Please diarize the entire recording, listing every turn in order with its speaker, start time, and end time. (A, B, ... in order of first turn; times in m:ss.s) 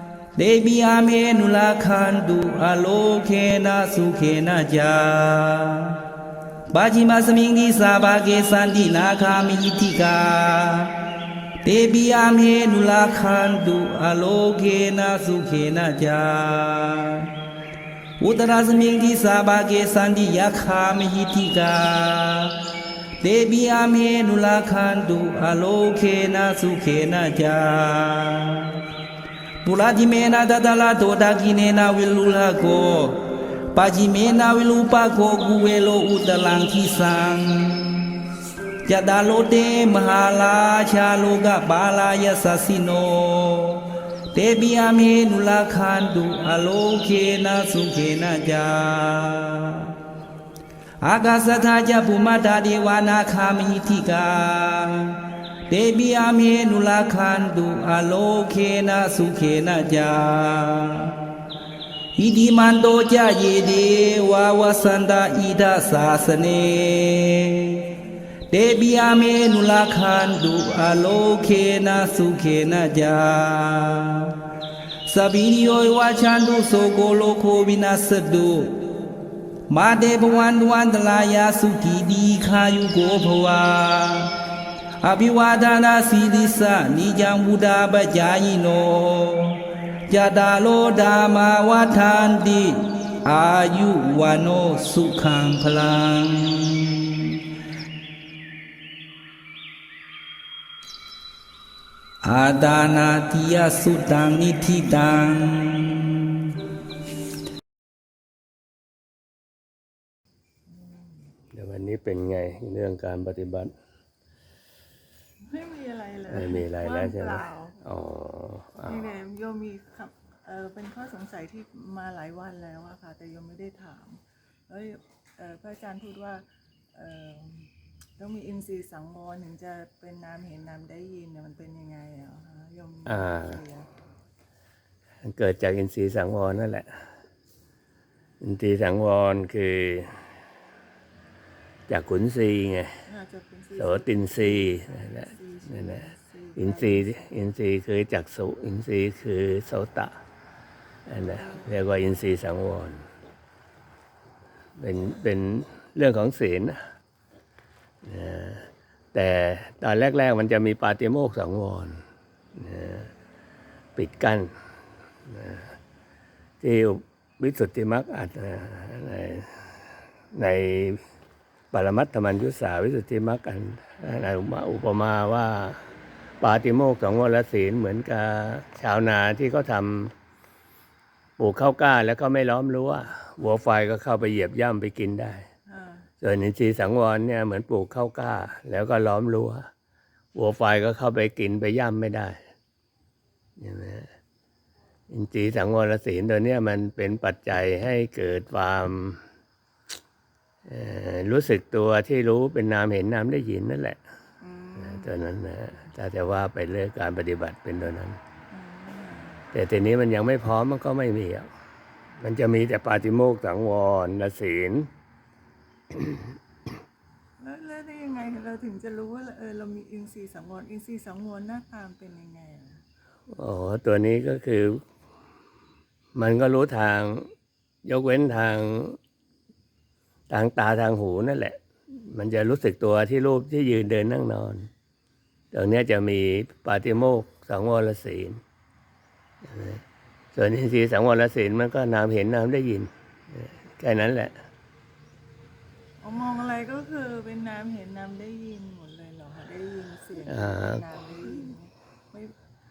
0:00.4-0:06.0 A
0:06.7-0:10.9 A
0:11.6-0:17.3 A
0:18.2-0:22.5 A
0:23.2-0:28.8 A
0:29.6-0:33.2 A
0:33.7-0:38.1 A
0:38.8-0:43.8 A
0:44.3-0:49.9 A
0:51.0-0:55.2 A
0:55.7-1:01.2 A
1:02.2-1:07.8 A
1:08.5-1:14.3 A
1:15.1-1:18.8 A
1:19.7-1:24.3 A
1:25.0-1:37.2 A
1:42.2-1:46.5 A
1:51.5-1:53.7 B
1:55.5-1:57.8 C
1:56.3-1:59.1 B
1:58.9-2:13.9 C
2:13.1-2:13.6 B
2:15.2-2:16.9 B
2:18.4-2:20.2 B
2:21.9-2:22.9 B
2:23.1-2:27.1 C
2:23.8-2:26.0 B
2:26.6-2:30.1 B
2:31.1-2:33.0 B
2:31.2-2:31.7 C
2:34.8-2:36.8 B
2:38.0-2:42.0 B
2:42.6-2:43.1 B
2:44.0-2:44.5 B
2:45.3-2:45.7 B
2:46.6-2:49.8 B
2:50.3-2:51.0 B
2:51.7-2:55.8 B
2:56.4-3:00.1 B
3:01.4-3:05.4 B
3:05.7-3:06.1 C
3:06.2-3:09.7 B
3:10.3-3:12.4 B
3:13.6-3:14.1 B
3:15.1-3:19.2 B
3:20.7-3:24.0 B
3:24.4-3:25.1 C
3:24.8-3:28.2 B
3:28.5-3:29.5 C
3:29.5-3:31.5 B
3:32.2-3:34.9 B
3:37.4-3:42.8 C
3:43.3-3:44.8 B
3:46.2-3:47.3 B
3:47.9-3:49.0 B
3:50.3-3:51.6 B
3:52.1-3:54.7 B
3:55.5-3:58.4 B
3:59.4-3:59.8 B
4:00.3-4:04.3 B
4:06.0-4:12.3 C
4:10.2-4:10.8 B